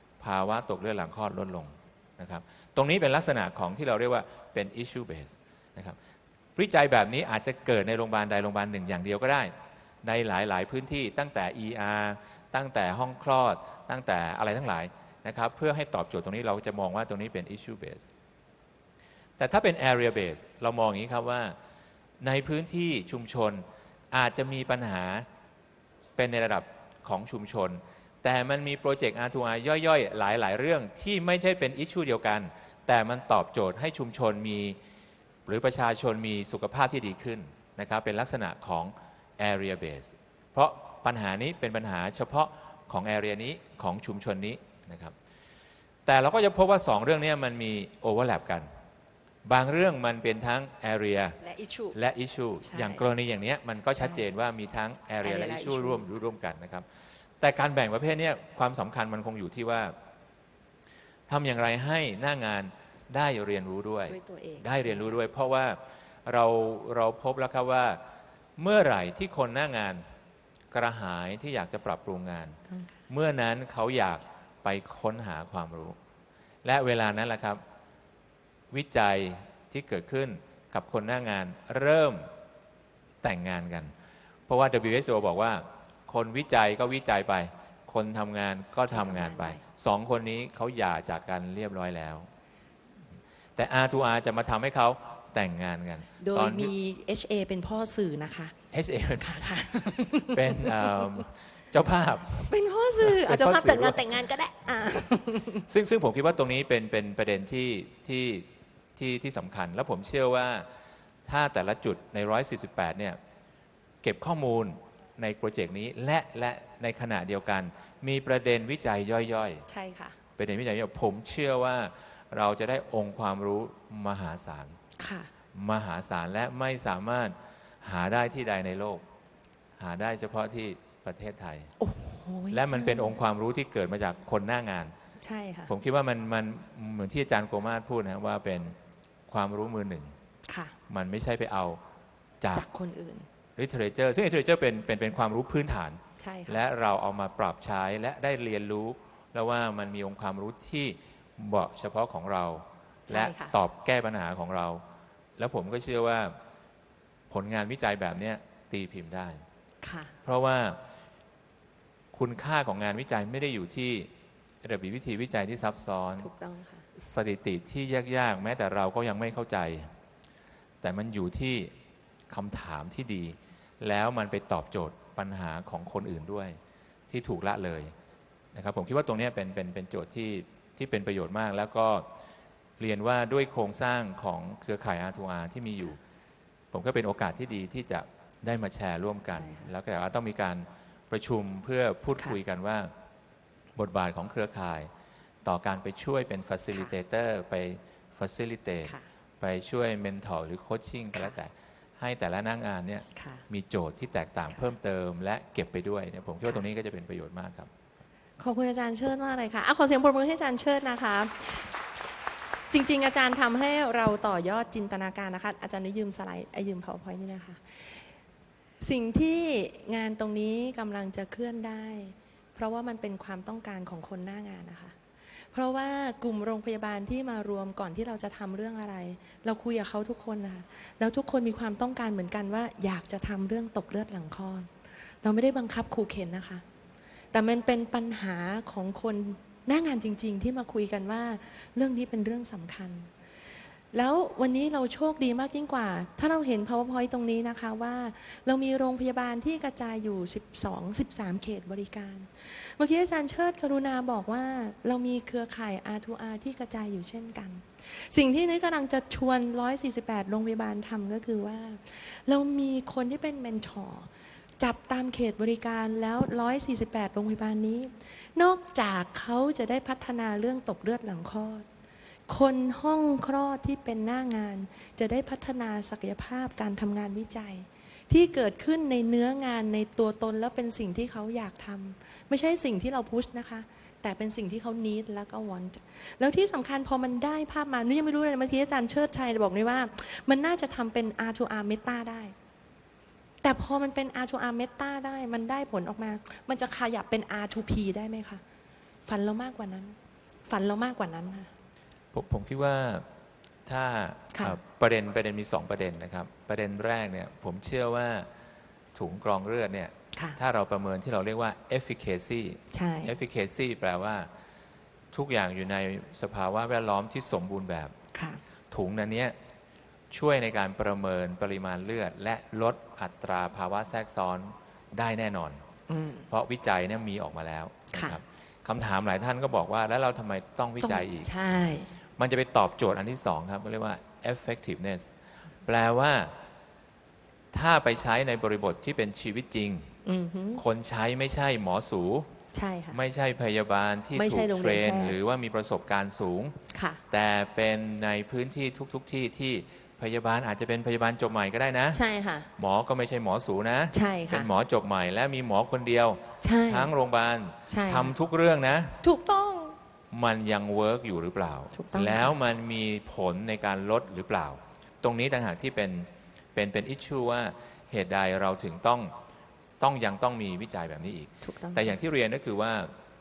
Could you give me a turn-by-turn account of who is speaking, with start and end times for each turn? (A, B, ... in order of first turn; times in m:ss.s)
0:00.2-0:06.0 A
0:06.6-0:09.5 A
0:10.0-0:18.1 A
0:19.4-0:21.6 A
0:22.2-0:25.2 A
0:26.2-0:34.8 A
0:35.4-0:45.1 A
0:46.0-0:48.7 A
0:49.4-0:51.4 A
0:51.4-0:51.9 B
0:51.9-0:56.8 A
0:52.6-0:53.0 B
0:55.2-0:56.0 B
0:57.4-0:59.9 A
1:01.3-1:08.0 A
1:04.1-1:05.2 B
1:08.6-1:10.0 A
1:10.7-1:16.0 A
1:16.6-1:17.6 A
1:18.7-1:22.3 A
1:23.2-1:23.9 A
1:24.5-1:32.3 A
1:28.9-1:29.6 B
1:33.6-1:36.7 A
1:36.2-1:38.6 B
1:38.7-1:44.1 A
1:39.2-1:41.2 B
1:42.4-1:45.6 B
1:45.7-1:50.7 A
1:51.2-1:53.2 A
1:54.0-1:59.6 A
1:59.7-2:00.2 B
2:00.4-2:04.8 A
2:05.0-2:05.3 B
2:05.5-2:09.0 A
2:09.8-2:11.7 A
2:11.8-2:13.1 B
2:12.5-2:14.9 A
2:15.2-2:15.7 B
2:15.7-2:18.8 A
2:19.3-2:20.1 A
2:20.5-2:20.8 B
2:20.9-2:21.8 A
2:22.4-2:22.6 A
2:22.5-2:23.3 B
2:23.6-2:34.8 A
2:26.2-2:26.6 B
2:33.1-2:33.5 B
2:35.4-2:36.4 A
2:37.3-2:39.4 A
2:39.8-2:40.1 B
2:40.2-2:40.8 A
2:42.1-2:44.1 A
2:44.6-2:46.3 A
2:46.2-2:46.8 B
2:47.0-2:49.9 A
2:50.8-2:51.7 A
2:52.3-2:56.6 A
2:57.1-2:57.9 A
2:58.5-3:02.0 A
3:02.8-3:06.0 A
3:06.7-3:12.9 A
3:09.3-3:09.7 B
3:13.8-3:14.9 A
3:15.4-3:27.7 A
3:23.1-3:23.4 B
3:28.4-3:31.7 B
3:32.7-3:37.6 B
3:38.8-3:44.9 B
3:45.5-3:54.7 B
3:55.2-3:56.6 B
3:57.3-4:03.1 B
4:03.9-4:24.1 B
4:24.6-4:31.6 B
4:32.3-4:52.3 B
4:53.4-4:58.4 B
4:59.0-5:01.5 B
5:02.1-5:03.0 A
5:03.6-5:08.3 A
5:08.9-5:14.3 A
5:12.7-5:13.1 B
5:15.1-5:17.9 A
5:18.1-5:18.4 B
5:18.7-5:19.3 A
5:20.1-5:25.6 A
5:25.9-5:26.3 B
5:26.3-5:31.3 A
5:27.9-5:28.2 B
5:30.8-5:31.9 B
5:32.2-5:35.1 A
5:35.6-5:36.3 A
5:37.5-5:39.9 A
5:40.0-5:40.6 B
5:40.6-5:42.3 A
5:42.5-5:43.0 B
5:42.9-5:46.6 A
5:44.1-5:45.2 B
5:46.7-5:47.0 B
5:47.1-5:52.0 A
5:51.9-5:52.5 B
5:52.6-5:59.0 A
5:53.9-5:54.5 B
5:56.4-5:56.9 B
5:57.7-5:58.1 B
5:59.0-5:59.8 B
6:00.1-6:09.1 A
6:01.7-6:02.3 B
6:09.8-6:12.9 A
6:11.4-6:11.9 B